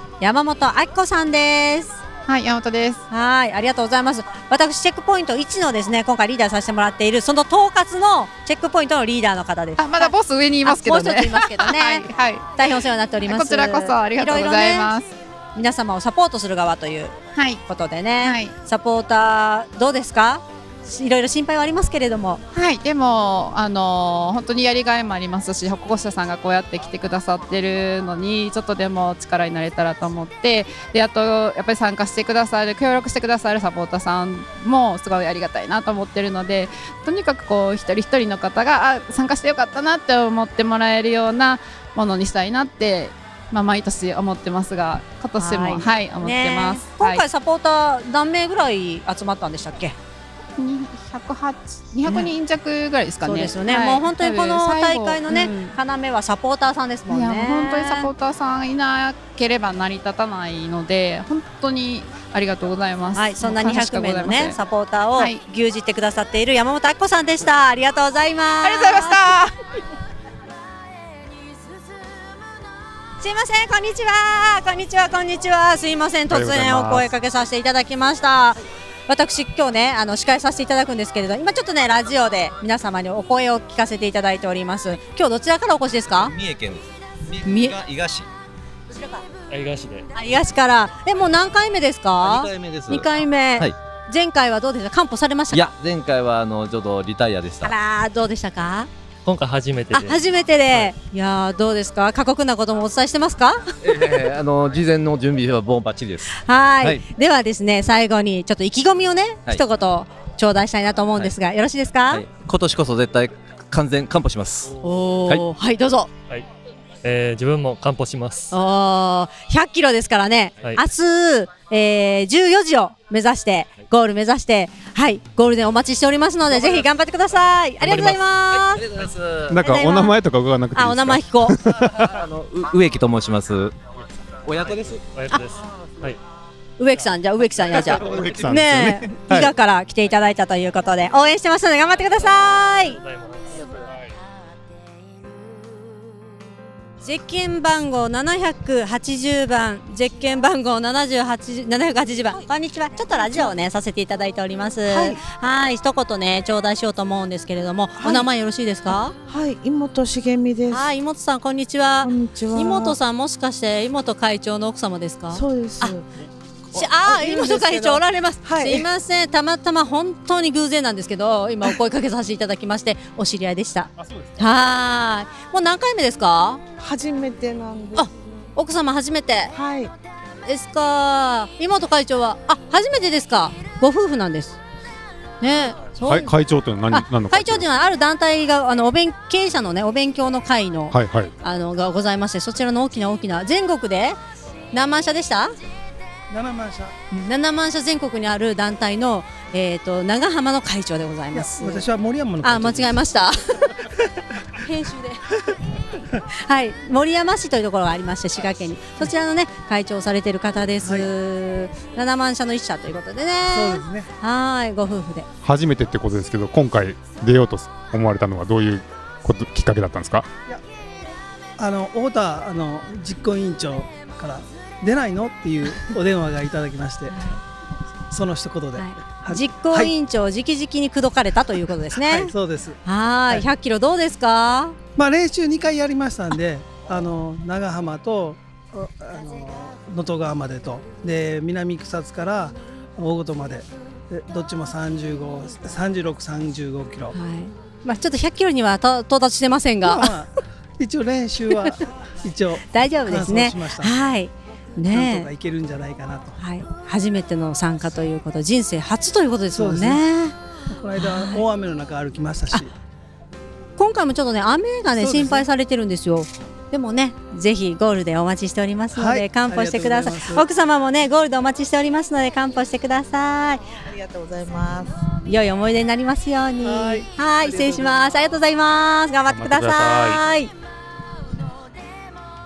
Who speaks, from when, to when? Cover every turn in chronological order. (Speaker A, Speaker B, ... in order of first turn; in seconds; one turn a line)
Speaker A: 0.2-2.0
Speaker B: 2.2-3.0
Speaker A: 3.1-14.9
Speaker B: 9.8-12.5
Speaker B: 13.3-15.1
Speaker A: 15.5-22.4
Speaker B: 17.3-17.6
Speaker B: 18.2-18.5
Speaker B: 22.5-47.2
Speaker A: 45.4-50.0
Speaker B: 50.6-55.8
Speaker A: 52.1-52.3
Speaker A: 53.2-58.1
Speaker B: 57.1-64.6
Speaker A: 63.1-69.3
Speaker B: 68.6-69.5
Speaker A: 73.2-86.3
Speaker C: 76.3-77.1
Speaker D: 86.1-88.3
Speaker A: 87.4-87.8
Speaker E: 89.5-90.1
Speaker A: 90.1-95.6
Speaker D: 92.2-93.8
Speaker D: 95.5-97.7
Speaker A: 97.6-98.9
Speaker E: 99.2-100.2
Speaker A: 99.9-103.6
Speaker D: 103.8-107.0
Speaker A: 106.3-112.2
Speaker D: 112.1-114.7
Speaker A: 114.8-116.1
Speaker E: 117.0-118.5
Speaker A: 118.5-128.8
Speaker E: 127.8-128.2
Speaker D: 128.7-129.5
Speaker C: 129.5-132.1
Speaker A: 129.6-130.1
Speaker A: 130.7-131.6
Speaker D: 132.1-133.7
Speaker D: 134.4-135.1
Speaker E: 135.1-136.2
Speaker A: 136.8-143.0
Speaker C: 137.9-139.5
Speaker E: 143.0-143.7
Speaker A: 147.0-159.1
Speaker F: 153.2-153.5
Speaker F: 154.9-155.2
Speaker F: 158.0-158.3
Speaker F: 159.3-160.9
Speaker A: 160.7-165.9
Speaker F: 162.0-163.0
Speaker F: 165.3-166.1
Speaker A: 166.7-176.6
Speaker F: 166.8-168.8
Speaker F: 176.8-178.1
Speaker A: 177.9-179.5
Speaker F: 179.5-179.9
Speaker A: 180.4-184.6
Speaker A: 185.4-186.3
Speaker C: 186.0-187.7
Speaker A: 186.9-194.2
Speaker C: 190.9-191.3
Speaker A: 194.7-195.5
Speaker G: 196.3-196.9
Speaker A: 197.1-201.8
Speaker G: 201.3-203.0
Speaker A: 202.4-203.7
Speaker A: 204.6-205.2
Speaker A: 206.4-215.2
Speaker G: 213.5-214.1
Speaker C: 215.4-220.3
Speaker G: 221.6-227.2
Speaker A: 227.1-227.4
Speaker G: 228.1-229.9
Speaker A: 228.8-232.3
Speaker G: 231.9-232.8
Speaker A: 232.8-234.8
Speaker G: 235.0-247.1
Speaker A: 247.1-250.1
Speaker G: 249.8-254.0
Speaker A: 252.7-255.3
Speaker G: 254.9-256.4
Speaker A: 256.4-260.3
Speaker G: 259.5-260.0
Speaker G: 260.7-262.7
Speaker A: 260.9-261.4
Speaker A: 263.8-273.6
Speaker G: 265.0-265.4
Speaker G: 268.9-270.4
Speaker F: 273.9-274.9
Speaker A: 275.2-280.5
Speaker G: 276.6-277.6
Speaker C: 279.3-280.2